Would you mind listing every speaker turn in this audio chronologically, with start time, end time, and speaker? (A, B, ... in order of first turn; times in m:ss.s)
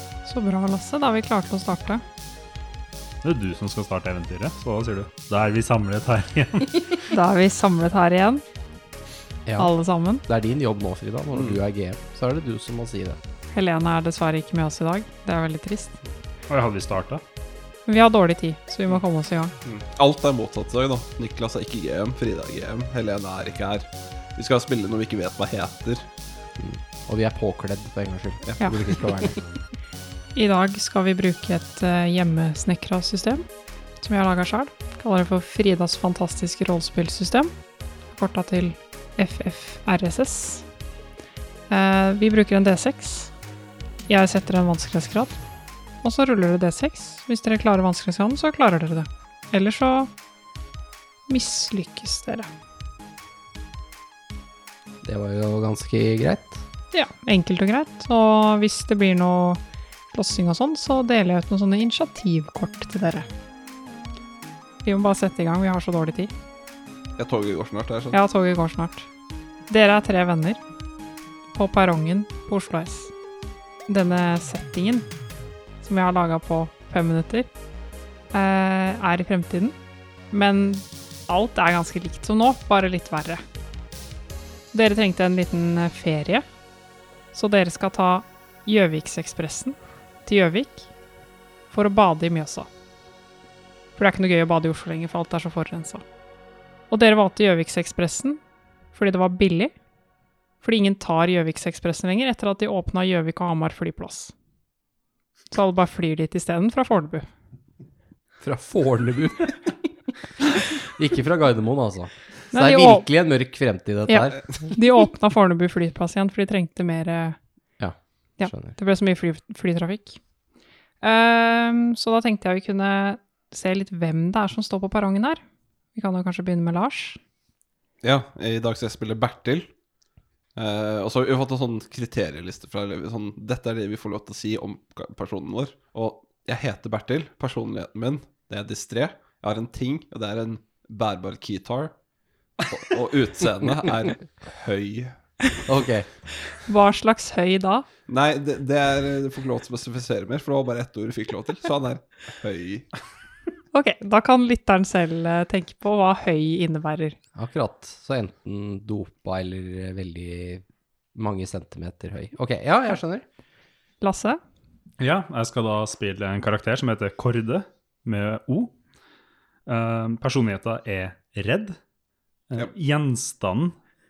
0:00.2-0:02.0 A
0:03.2-0:07.0 B
0:07.1-0:08.4 A
0:09.4-0:09.7 C
0:09.6-0:10.2 A
0:10.2-0:13.2 C
0:11.3-0:11.6 D
0:13.5-0:16.0 A
0:16.5-0:17.2 B
0:17.9-0:19.5 A
0:19.6-0:26.1 D
0:26.6-0:29.4 C
0:28.5-0:28.7 D
0:30.4-0:33.4 A
0:34.0-0:37.5 A
0:38.1-0:40.6 A
0:41.7-0:43.3 A
0:44.1-0:45.4 A
0:46.0-0:50.1 A
0:51.3-0:52.5 A
0:55.0-0:56.6 C
0:56.9-0:59.6 A
1:00.1-1:03.3 A
1:04.8-1:06.3 A
1:07.2-1:08.2 D
1:08.1-1:09.1 A
1:09.7-1:10.6 A
1:11.5-1:13.1 A
1:13.9-1:15.1 A
1:15.8-1:17.5 A
1:18.3-1:19.8 A
1:20.3-1:23.4 A
1:24.7-1:26.4 A
1:27.3-1:30.9 A
1:31.7-1:32.7 A
1:34.0-1:36.0 A
1:36.9-1:38.4 A
1:38.9-1:39.7 A
1:40.6-1:44.3 A
1:45.5-1:47.3 A
1:48.4-1:49.8 C
1:50.8-1:54.8 C
1:52.5-1:53.1 A
1:54.1-1:57.4 A
1:57.8-1:58.8 C
1:58.4-2:00.2 A
2:01.0-2:05.4 A
2:05.9-2:07.2 A
2:08.0-2:09.7 D
2:10.6-2:21.9 D
2:22.6-2:25.1 D
2:25.7-2:26.1 C
2:26.5-2:27.8 A
2:28.1-2:32.9 D
2:33.7-2:37.2 A
2:37.4-2:40.6 C
2:41.1-2:43.2 C
2:44.0-2:44.4 A
2:45.0-2:48.7 B
2:49.7-2:51.8 B
2:52.5-2:53.8 B